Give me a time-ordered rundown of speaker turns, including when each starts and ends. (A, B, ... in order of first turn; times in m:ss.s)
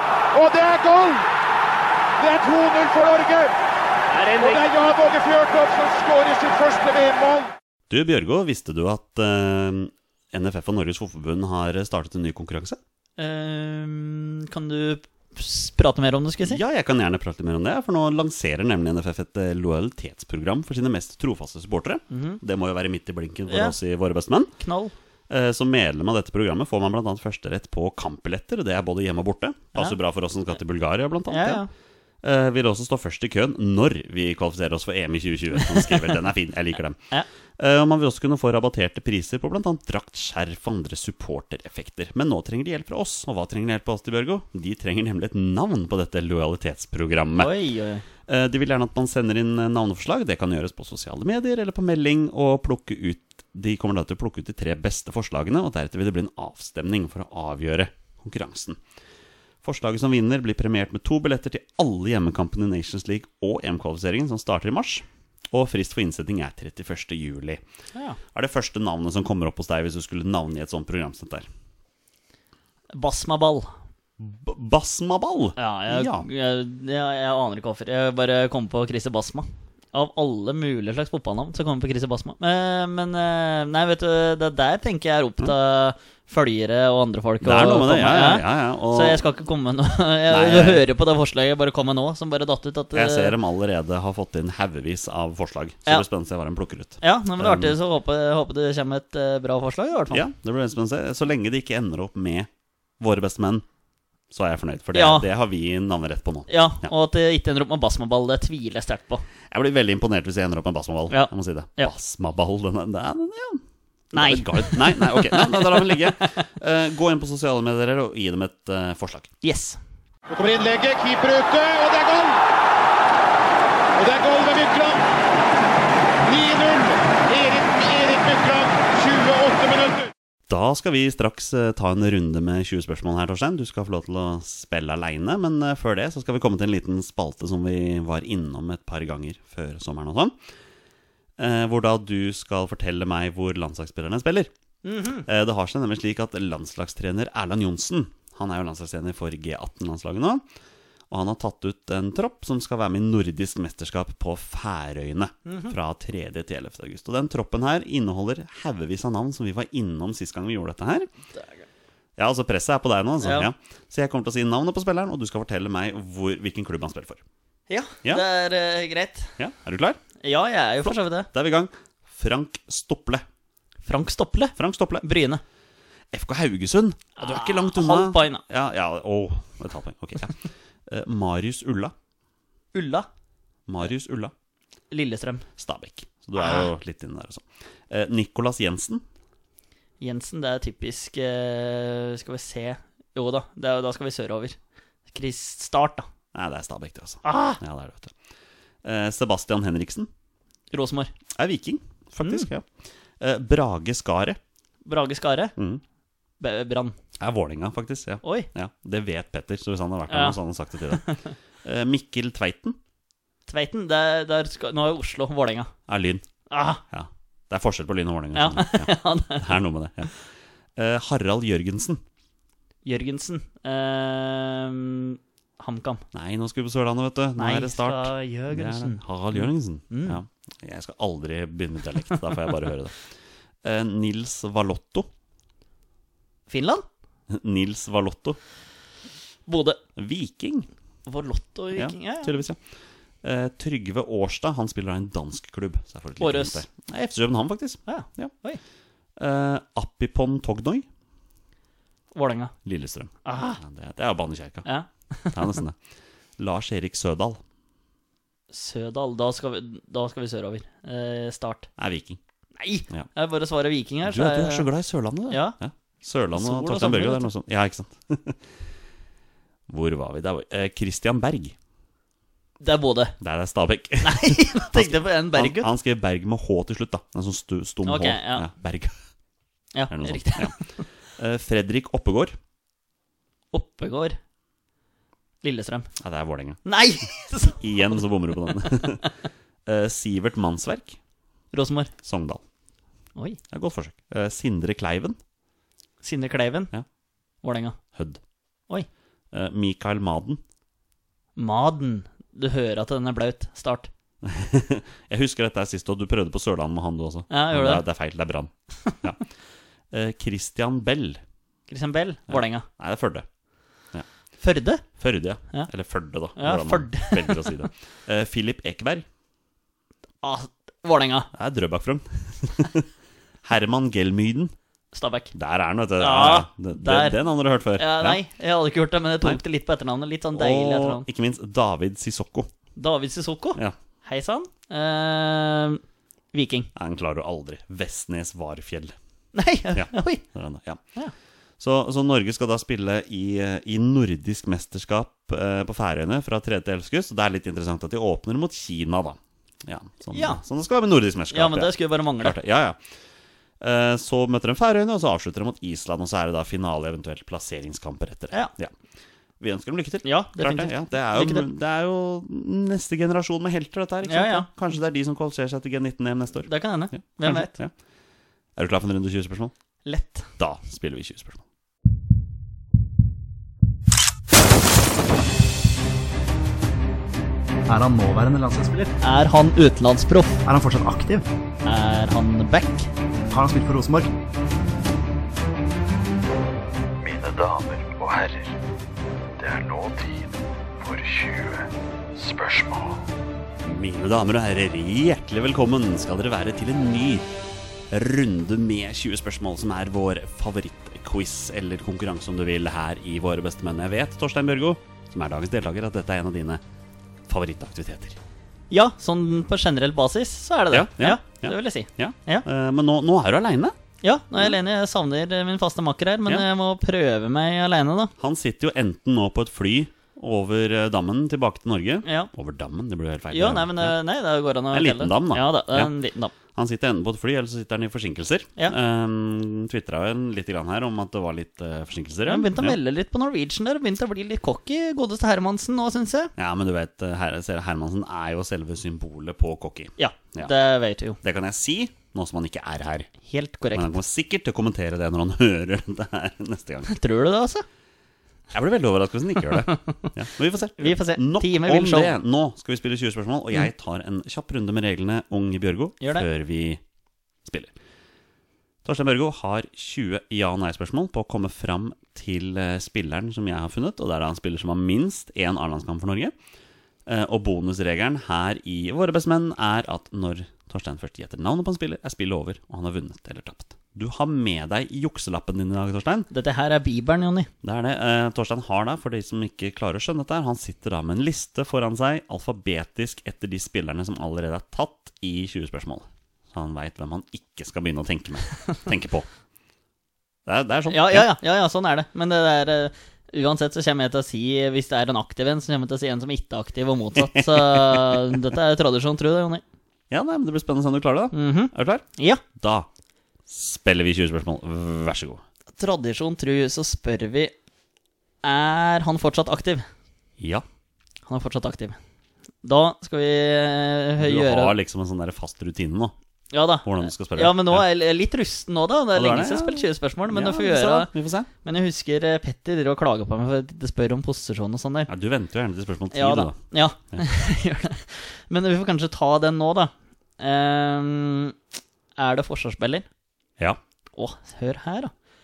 0:00.3-0:01.2 A
0:02.2-0:03.5 A
0:04.4-0:07.5 A
0:07.9-0:12.8 B
0:13.2-0:16.6 C
0:16.4-0:24.5 B
0:22.1-0:22.4 C
0:23.5-0:23.7 C
0:24.6-0:24.9 C
0:25.3-0:31.6 B
0:31.3-0:31.7 C
0:32.2-0:37.0 B
0:37.6-0:47.5 B
0:47.4-0:48.0 C
0:48.3-0:58.8 B
0:59.6-1:07.6 B
1:08.3-1:11.4 B
1:12.9-1:13.7 C
1:14.2-1:16.2 B
1:15.6-1:33.3 C
1:27.4-1:29.2 B
1:30.3-1:30.8 B
1:32.9-1:37.8 B
1:37.0-1:40.2 C
1:40.1-1:42.5 B
1:43.0-1:43.6 B
1:44.3-1:46.9 B
1:44.9-1:45.3 C
1:46.5-1:49.2 C
1:49.5-1:53.6 B
1:51.1-1:51.9 C
1:54.1-1:56.4 C
1:54.1-1:59.3 B
1:59.4-1:59.8 C
2:00.3-2:02.4 A
2:04.0-2:05.0 A
2:06.2-2:10.1 A
2:10.5-2:20.4 B
2:21.4-2:24.5 B
2:24.8-2:25.2 C
2:25.2-2:30.4 B
2:31.1-2:41.1 B
2:35.4-2:35.7 C
2:42.2-2:47.2 B
2:43.2-2:43.5 C
2:47.7-2:49.3 C
2:49.4-2:50.0 B
2:50.2-2:51.3 C
2:50.8-2:53.2 B
2:53.8-2:55.4 C
2:54.6-2:55.0 B
2:56.1-3:01.9 B
2:57.2-2:58.4 C
3:02.7-3:03.1 C
3:03.7-3:04.3 B
3:04.9-3:05.4 C
3:05.6-3:09.0 B
3:10.0-3:14.6 C
3:15.1-3:16.0 C
3:16.3-3:18.1 B
3:17.2-3:17.6 C
3:18.8-3:20.1 B
3:20.7-3:21.1 C
3:21.3-3:22.7 B
3:22.2-3:22.5 C
3:23.2-3:24.4 B
3:24.8-3:25.5 C
3:25.6-3:25.8 B
3:26.4-3:26.9 C
3:27.2-3:31.0 B
3:28.2-3:28.5 C
3:30.1-3:30.4 C
3:30.9-3:31.3 C
3:31.6-3:32.8 B
3:33.5-3:35.7 C
3:35.9-3:36.2 B
3:36.5-3:36.8 C
3:36.9-3:40.1 B
3:38.3-3:39.5 C
3:40.8-3:42.0 B
3:42.8-3:46.0 C
3:46.1-3:53.0 B
3:47.4-3:50.2 C
3:53.6-3:55.1 B
3:56.5-3:56.8 C
3:57.3-3:58.4 B
3:59.5-3:59.8 C
4:00.0-4:00.7 B
4:01.0-4:02.3 C
4:01.7-4:02.6 B
4:03.2-4:08.3 B
4:06.2-4:06.6 C
4:07.9-4:08.6 C
4:09.2-4:10.8 B
4:12.1-4:12.5 C
4:12.6-4:14.6 B
4:13.2-4:13.6 C
4:14.6-4:15.6 C
4:15.3-4:15.8 B
4:16.4-4:17.4 B
4:18.5-4:21.7 C
4:21.8-4:22.2 B
4:22.6-4:24.7 C
4:24.0-4:28.4 B
4:25.3-4:25.6 C
4:26.3-4:27.3 C
4:29.7-4:31.5 B
4:32.6-4:33.2 C
4:33.2-4:38.9 B
4:34.0-4:35.7 C
4:37.8-4:38.5 C
4:39.7-4:40.8 C
4:39.9-4:40.6 B
4:41.2-4:42.4 B
4:43.5-4:44.2 C
4:45.4-4:45.9 C
4:46.0-4:46.6 B
4:46.6-4:48.0 C
4:47.6-4:49.0 B
4:48.6-4:49.1 C
4:49.6-4:51.0 B
4:51.5-4:51.9 C
4:52.0-4:52.4 B
4:53.5-4:55.2 B
4:56.0-4:56.7 C
4:57.4-4:57.8 C
4:57.9-4:58.2 B
4:59.3-5:00.4 B
5:01.4-5:03.9 C
5:04.2-5:09.2 B
5:07.3-5:07.8 C
5:09.9-5:11.2 B
5:11.7-5:12.6 C
5:12.3-5:13.2 B
5:14.4-5:14.8 C
5:15.0-5:19.0 B
5:16.4-5:17.7 C
5:20.2-5:21.3 C
5:21.3-5:22.9 B
5:23.4-5:24.5 B
5:24.9-5:25.3 C
5:25.3-5:28.2 B
5:26.0-5:27.2 C
5:27.7-5:31.0 C
5:30.3-5:32.5 B
5:32.8-5:35.8 C
5:36.3-5:36.7 C
5:36.7-5:38.9 B
5:39.3-5:40.2 C
5:39.7-5:40.8 B
5:41.6-5:52.8 B
5:50.1-5:50.4 C
5:51.3-5:52.4 C
5:53.6-5:58.7 B
5:59.4-6:07.7 B
6:00.0-6:01.4 C
6:04.0-6:04.5 C
6:06.5-6:07.5 C
6:08.6-6:09.5 B
6:09.8-6:10.3 C
6:10.4-6:11.4 B
6:17.7-6:18.9 D
6:19.0-6:20.4 C
6:20.4-6:21.3 D
6:21.6-6:22.9 C
6:23.3-6:24.1 D
6:27.0-6:28.6 E
6:29.4-6:33.1 E
6:33.6-6:37.3 B
6:37.9-6:46.6 B
6:47.3-6:48.2 B
6:48.7-6:52.4 C
6:50.7-6:53.7 B
6:54.0-6:58.1 C
6:58.2-7:04.0 B
7:02.0-7:02.3 C
7:03.3-7:06.3 C
7:04.7-7:05.9 B
7:06.5-7:12.8 B
7:12.3-7:16.3 C
7:16.4-7:20.5 B
7:20.0-7:21.2 C
7:21.2-7:23.1 B
7:23.2-7:23.9 C
7:23.7-7:26.9 B
7:26.9-7:27.6 C
7:28.5-7:36.8 B
7:29.7-7:30.1 C
7:30.8-7:32.1 C
7:37.4-7:37.7 B
7:38.8-7:46.3 B
7:47.0-7:56.3 B
7:56.3-7:57.5 C
7:57.6-8:09.3 B
8:10.4-8:11.3 B
8:10.9-8:19.6 C
8:17.2-8:18.1 B
8:20.1-8:22.9 B
8:21.3-8:22.4 C
8:23.5-8:25.4 B
8:25.8-8:27.5 C
8:28.4-8:29.8 C
8:30.4-8:30.6 B
8:31.2-8:32.0 C
8:32.6-8:34.7 C
8:34.2-8:36.1 B
8:36.5-8:41.1 C
8:36.8-8:37.8 B
8:39.1-8:41.5 B
8:41.6-8:45.1 C
8:45.1-8:46.6 B
8:46.1-8:51.5 C
8:52.2-8:53.0 C
8:54.2-8:55.1 C